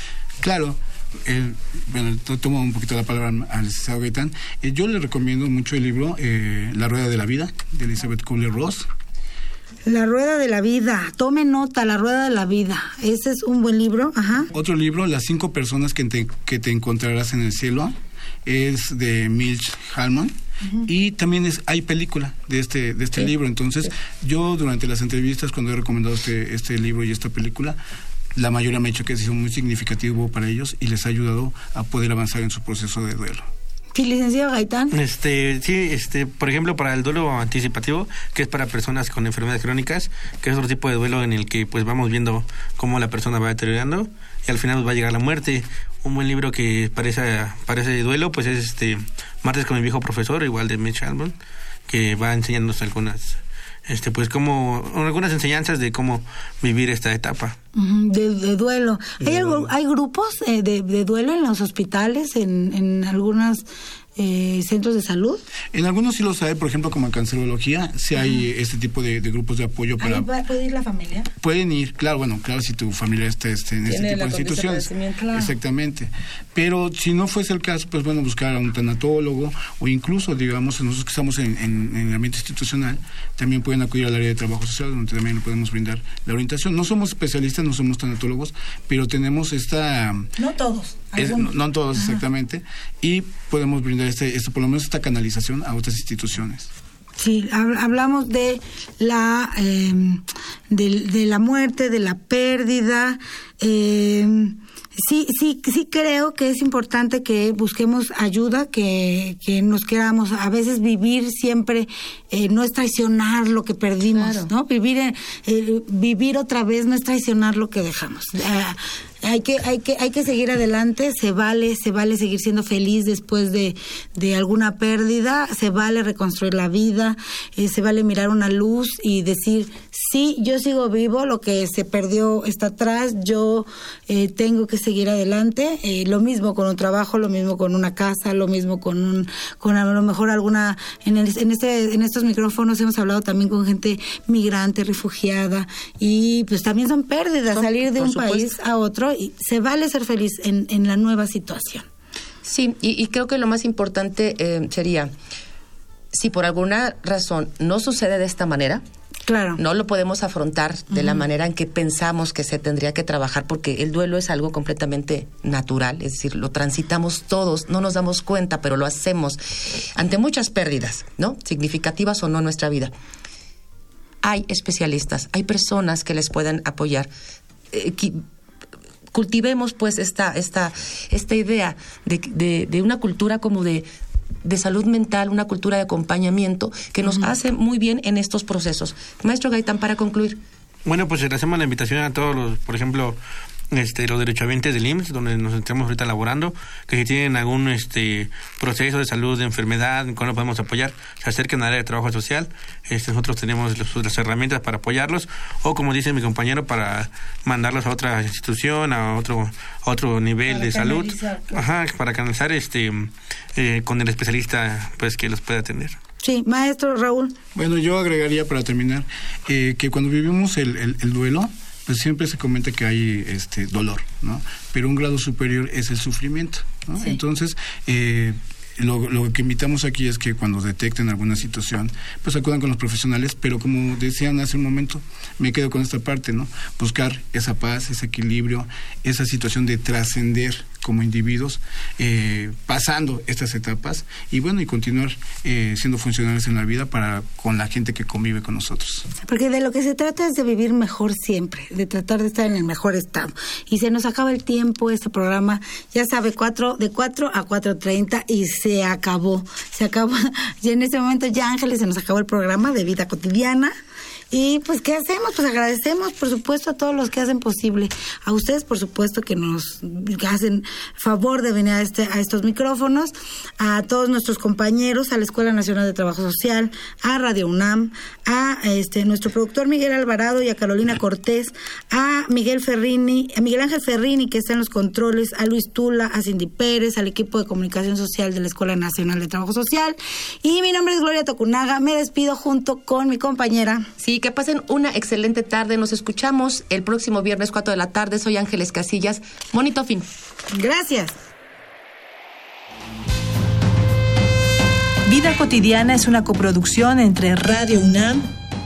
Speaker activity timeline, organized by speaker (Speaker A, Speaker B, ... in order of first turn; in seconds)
Speaker A: 0.4-8.9, 14.5-27.8, 28.4-33.5, 59.3-59.6, 65.7-70.3, 71.4-90.3, 91.2-96.7, 217.5-249.1
Speaker B: 9.9-14.5, 33.9-34.9, 57.7-63.6, 64.2-65.4, 70.0-71.3, 90.4-92.2, 97.2-151.9, 159.3-159.6, 160.9-161.2, 210.5-211.6, 216.2-217.3, 249.2-263.7, 264.3-293.9, 300.5-301.1
Speaker C: 34.9-51.4, 51.9-57.6, 190.8-193.2, 193.7-216.0
Speaker D: 73.9-75.3, 114.0-114.5, 147.5-148.5, 152.4-155.1, 156.1-158.8, 159.6-172.9, 174.2-177.1, 177.7-178.2, 179.1-183.9, 184.4-190.4, 294.0-300.1
Speaker E: 305.1-308.3